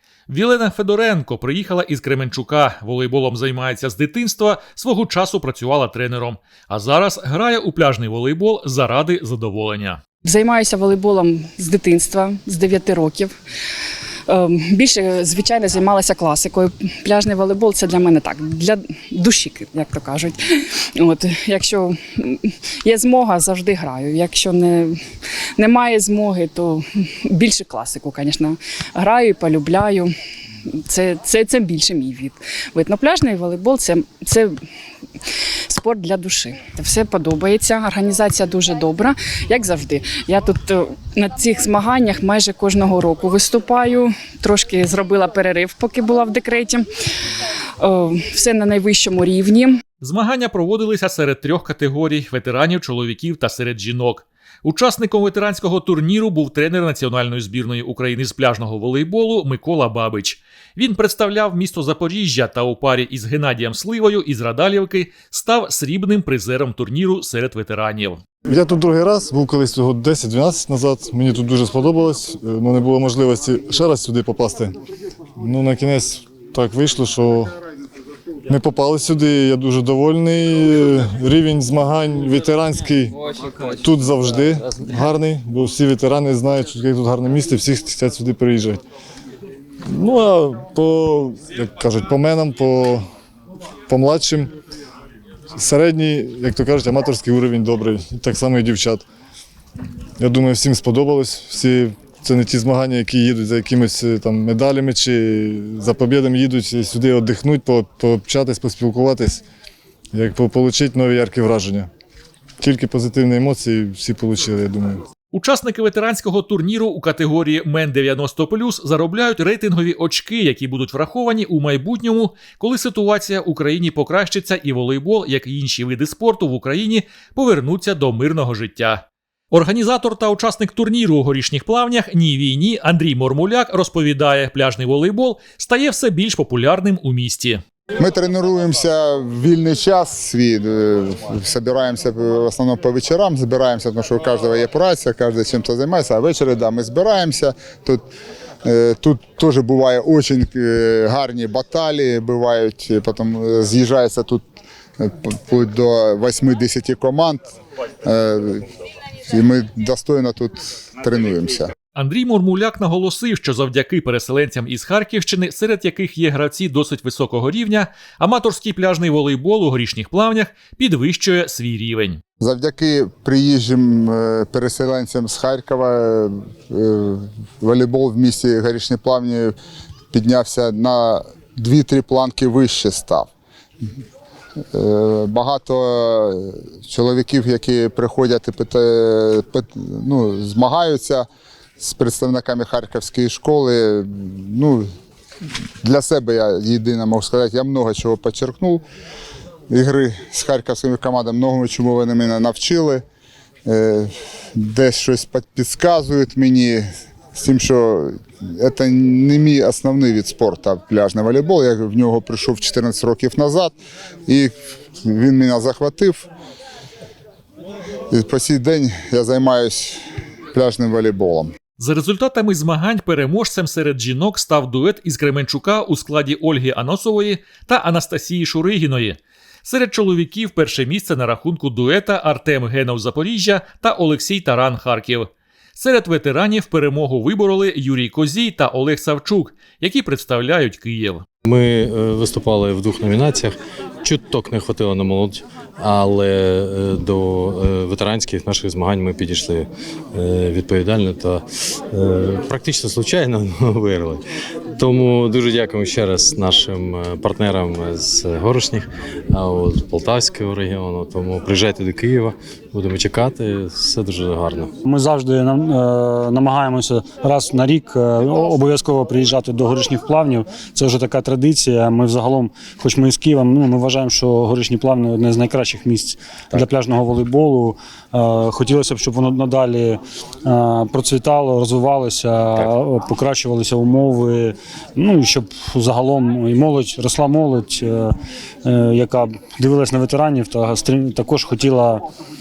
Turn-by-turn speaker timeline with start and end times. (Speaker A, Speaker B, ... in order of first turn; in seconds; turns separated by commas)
Speaker A: 0.3-10.0, Speaker B: 10.2-13.3, Speaker B: 14.3-30.1, Speaker B: 30.7-34.5, Speaker B: 35.3-46.9, Speaker B: 47.8-49.8, Speaker A: 50.0-68.2, Speaker C: 68.4-74.7, Speaker C: 75.4-77.5, Speaker C: 78.5-88.8, Speaker C: 89.8-93.0, Speaker C: 93.9-94.5, Speaker C: 95.6-99.0, Speaker C: 100.2-109.4, Speaker C: 110.1-111.9, Speaker C: 112.6-115.0, Speaker A: 115.3-137.6, Speaker D: 138.0-148.0, Speaker D: 148.6-154.4, Speaker D: 155.0-157.4, Speaker D: 158.0-158.7, Speaker D: 159.3-161.7, Speaker A: 161.9-172.2, Speaker D: 172.4-179.5, Speaker D: 180.1-183.3, Speaker D: 184.7-191.2, Speaker D: 191.8-194.9, Speaker D: 195.8-198.8, Speaker D: 199.7-203.0, Speaker D: 203.7-213.8, Speaker D: 214.3-214.5, Speaker D: 215.0-216.3, Speaker D: 218.1-220.0, Speaker D: 220.5-221.5, Speaker A: 221.8-241.2, Speaker E: 241.5-254.2, Speaker E: 254.7-264.7, Speaker F: 264.8-292.0